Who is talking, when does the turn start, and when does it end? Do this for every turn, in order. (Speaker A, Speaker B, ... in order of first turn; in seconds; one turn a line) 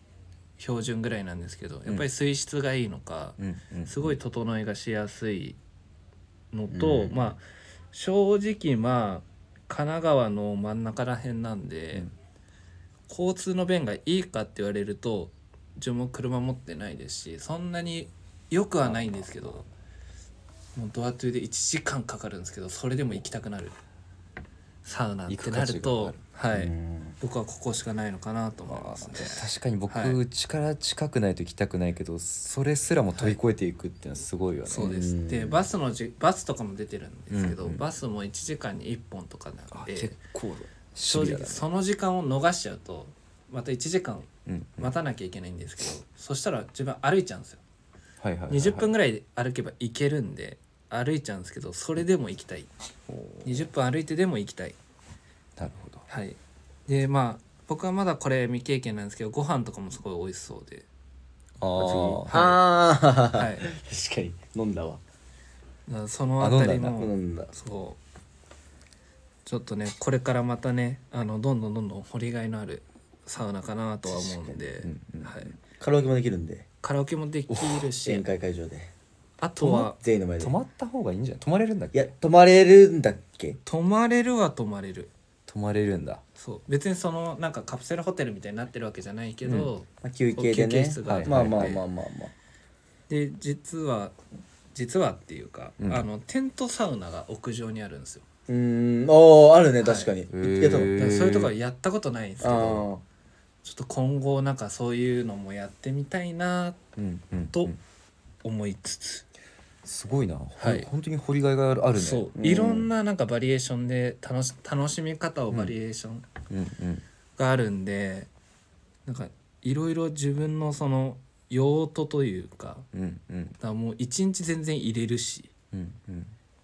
Speaker A: 0.6-5.6
Speaker B: 3.4-4.2
Speaker A: 6.5-7.4
Speaker C: 6.7-7.2
Speaker A: 7.9-12.1
Speaker A: 13.1-19.6
Speaker B: 18.8-19.4
Speaker A: 20.7-23.8
Speaker A: 24.8-30.2
Speaker B: 25.3-26.2
Speaker C: 26.5-27.1
Speaker B: 28.7-34.9
Speaker A: 34.7-40.1
Speaker C: 34.8-35.7
Speaker B: 37.3-37.8
Speaker B: 39.7-41.6
Speaker A: 41.1-47.6
Speaker B: 44.5-44.9
Speaker B: 48.2-48.9
Speaker A: 48.5-52.7
Speaker B: 53.1-53.7
Speaker A: 53.4-54.8
Speaker B: 55.6-56.0
Speaker A: 56.1-60.9
Speaker B: 61.6-62.6
Speaker C: 61.8-65.0
Speaker A: 63.3-63.7
Speaker A: 65.9-68.0
Speaker B: 66.4-67.0
Speaker C: 66.9-67.5
Speaker A: 69.5-75.5
Speaker C: 74.1-74.6
Speaker B: 74.8-75.5
Speaker C: 75.8-76.7
Speaker A: 76.8-78.2
Speaker B: 77.5-77.8
Speaker C: 78.0-78.9
Speaker A: 79.4-80.0
Speaker C: 79.6-80.5
Speaker B: 80.4-82.1
Speaker C: 81.9-83.6
Speaker A: 83.7-85.1
Speaker B: 85.5-86.2
Speaker A: 86.3-91.8
Speaker B: 89.4-89.7
Speaker C: 90.0-92.3
Speaker B: 91.0-91.8
Speaker A: 93.1-94.1
Speaker A: 94.7-98.2
Speaker B: 95.8-96.0
Speaker C: 98.5-100.9
Speaker A: 99.8-100.1
Speaker B: 100.3-101.5
Speaker A: 101.0-102.9
Speaker C: 102.4-103.0
Speaker A: 103.6-106.8
Speaker B: 107.0-107.8
Speaker A: 108.4-109.2
Speaker B: 109.8-112.3
Speaker A: 110.6-110.9
Speaker A: 112.0-116.2
Speaker C: 112.4-112.9
Speaker B: 116.5-117.0
Speaker A: 117.4-118.3
Speaker A: 119.0-122.9
Speaker B: 122.9-123.5
Speaker A: 123.6-125.5
Speaker B: 125.7-126.3